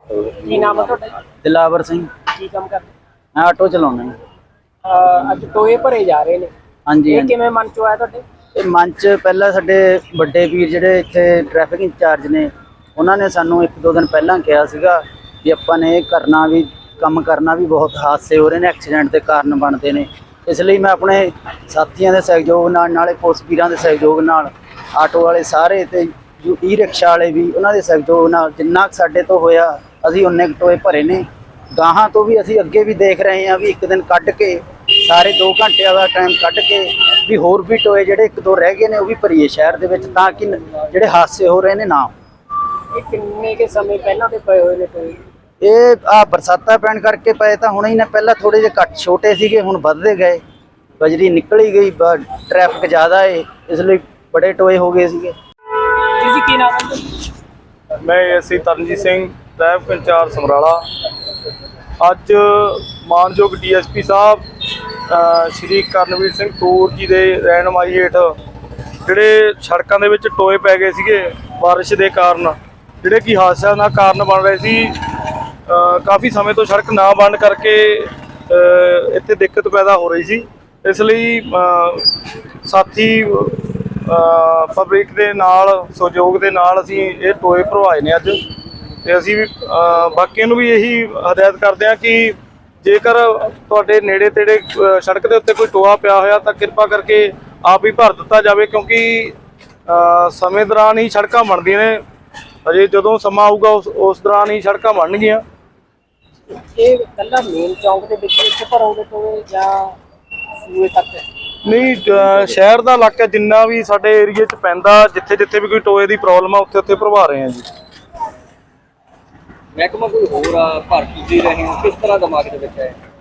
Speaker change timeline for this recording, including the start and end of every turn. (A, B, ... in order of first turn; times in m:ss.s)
0:00.1-0:01.1 A
0:01.4-0:02.1 B
0:02.3-0:02.9 A
0:03.4-0:04.1 B
0:04.8-0:06.5 A
0:06.9-0:07.3 B
0:07.1-0:08.2 A
0:08.6-0:42.1 B
0:42.9-0:45.2 A
0:45.6-0:50.4 B
0:51.0-0:55.3 B
0:56.2-0:57.2 A
0:58.0-1:00.8 C
1:02.0-1:04.4 C
1:05.1-1:08.3 C
1:09.0-1:15.0 C
1:15.7-1:28.4 C
1:29.0-1:39.3 C
1:39.9-1:42.0 C
1:42.6-1:45.4 C
1:46.5-1:50.0 A
1:50.6-1:51.2 A
1:51.6-1:57.7 C
1:59.8-2:03.0 D